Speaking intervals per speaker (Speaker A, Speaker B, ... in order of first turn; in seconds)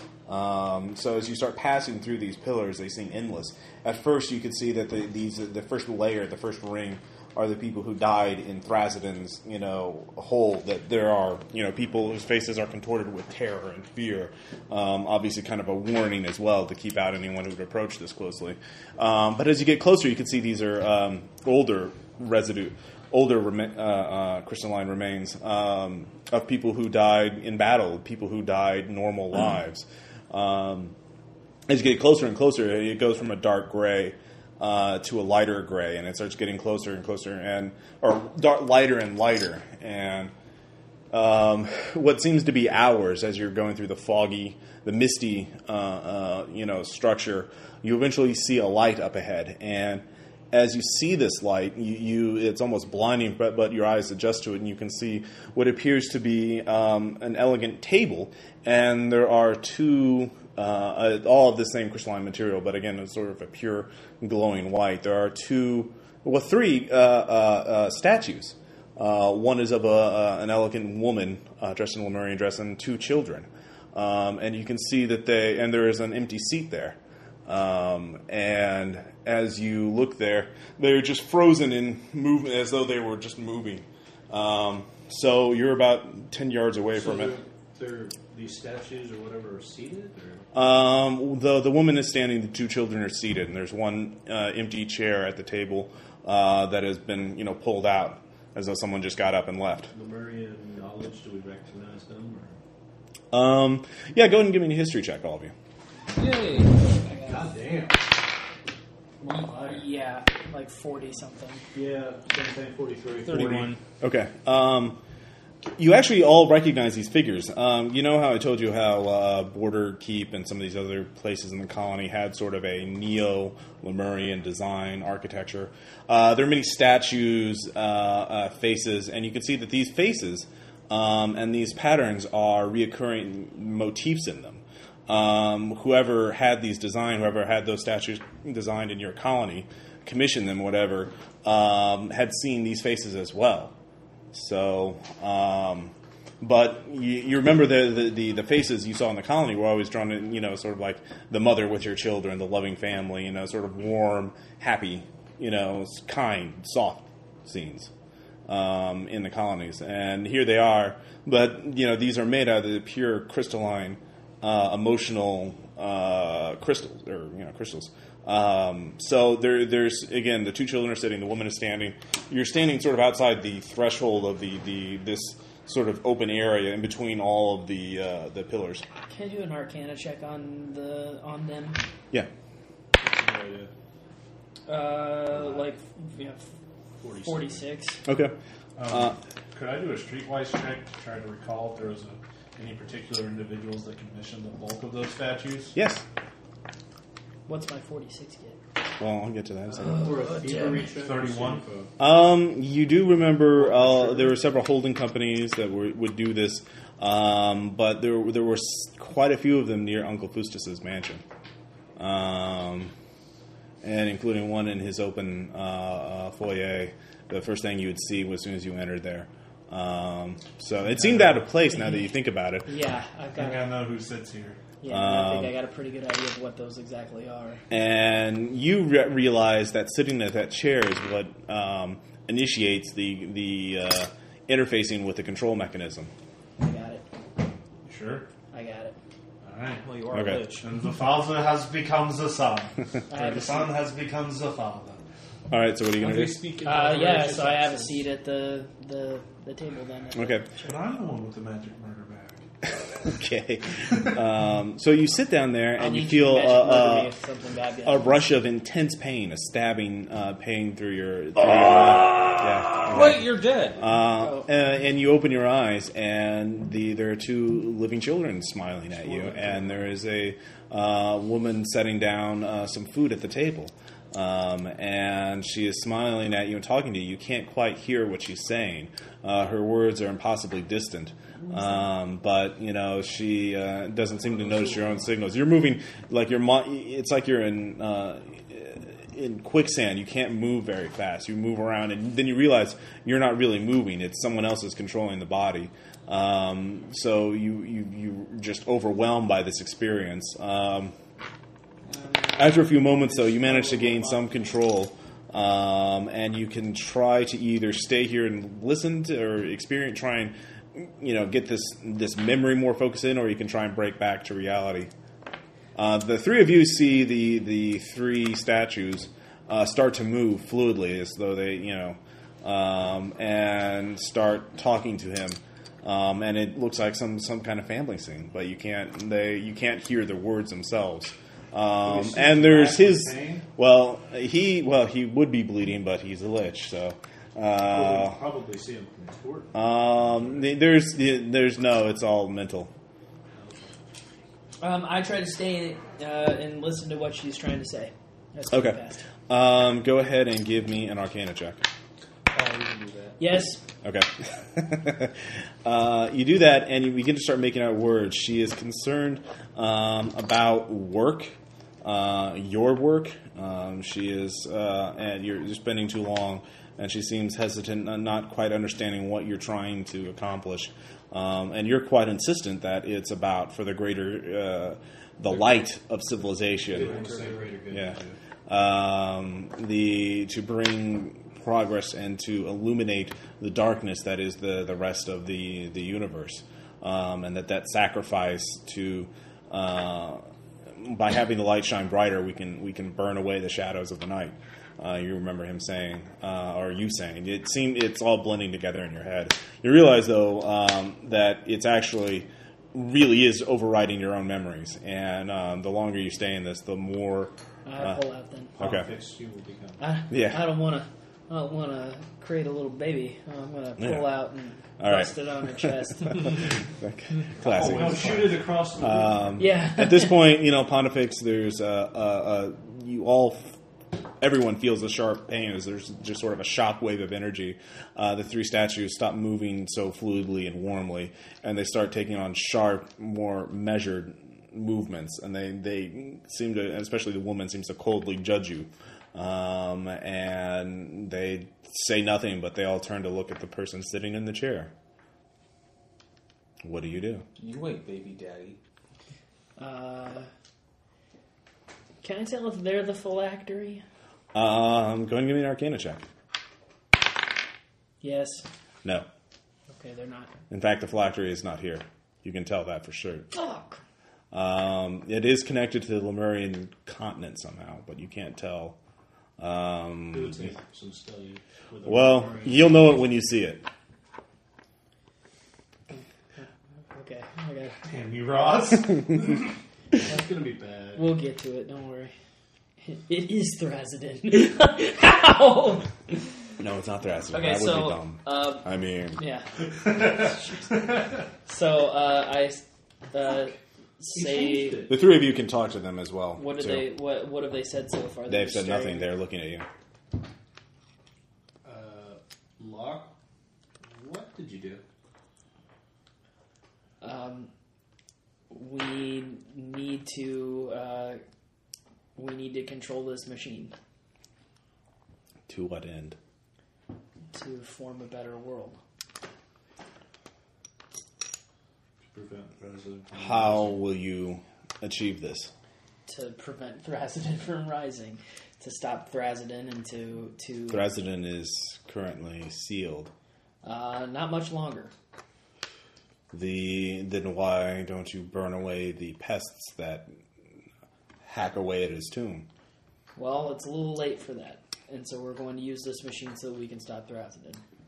Speaker A: 0.3-30.9, 31.7-40.3, 41.1-87.3, 90.5-99.9, 103.3-105.5, 114.0-115.0, 115.8-143.7, 144.3-157.9, 158.5-178.8, 188.1-188.3, 188.9-189.2, 195.7-196.0, 199.0-200.2, 202.0-211.2, 212.0-212.9, 213.8-222.7, 224.9-225.5, 227.7-236.1, 240.1-240.4, 245.5-246.4, 250.1-250.5, 253.0-257.1, 257.8-300.9, 302.4-314.9, 315.8-338.2, 339.5-342.7, 348.5-351.6, 353.8-376.9, 377.7-390.2, 390.7-408.0, 408.6-408.9, 410.1-410.6, 413.8-414.3, 414.8-423.6, 424.2-444.7, 446.6-447.2, 454.3-456.0, 460.5-463.3, 464.3-468.8, 469.4-470.5, 471.8-473.6, 486.6-489.2, 494.9-496.9, 498.3-499.6, 515.5-516.2, 523.2-525.5, 530.7-533.1, 536.3-540.1, 541.2-542.5
Speaker B: 86.9-90.5, 99.9-102.6, 107.2-108.0, 109.2-109.8, 111.7-113.7, 182.9-183.7, 185.3-185.6, 187.0-187.7, 199.9-201.9, 203.6-204.3, 331.8-333.4, 337.7-340.5, 343.3-343.7, 376.7-378.1, 408.6-409.8, 417.4-419.3, 470.1-472.8, 480.0-481.1, 494.1-495.0, 501.6-503.1, 503.9-504.8, 522.1-523.8
Speaker C: 106.2-107.0, 113.2-113.8, 239.8-240.7, 246.0-248.0, 262.2-263.8, 352.3-353.2, 375.3-375.6, 376.7-377.5, 447.4-448.6
Speaker D: 107.0-107.5, 109.2-111.6, 179.1-181.8, 184.7-186.5, 187.2-188.0, 197.5-198.6, 199.7-200.9, 221.7-222.1, 222.6-223.7, 224.8-227.6, 236.6-237.0, 238.5-238.9, 243.1-243.8, 246.6-250.6, 255.8-258.2, 264.1-264.5, 301.9-304.5, 344.6-349.1, 353.2-353.6, 407.6-408.5, 409.8-416.5, 419.4-420.3, 449.6-450.3, 452.0-453.8, 458.0-458.4, 459.7-460.3, 463.3-463.8, 475.9-477.8, 480.9-482.1, 482.8-486.2, 487.3-490.9, 491.4-494.9, 496.4-499.1, 507.0-507.5, 508.5-511.2, 512.1-513.7, 517.3-518.8, 526.1-530.9, 533.6-534.9, 543.1-547.6
Speaker E: 188.8-195.8, 200.9-201.7, 220.8-221.4, 223.4-224.6, 237.8-238.3, 239.4-239.8, 240.6-245.0, 250.6-252.5, 417.4-418.4, 477.8-479.5, 489.9-490.2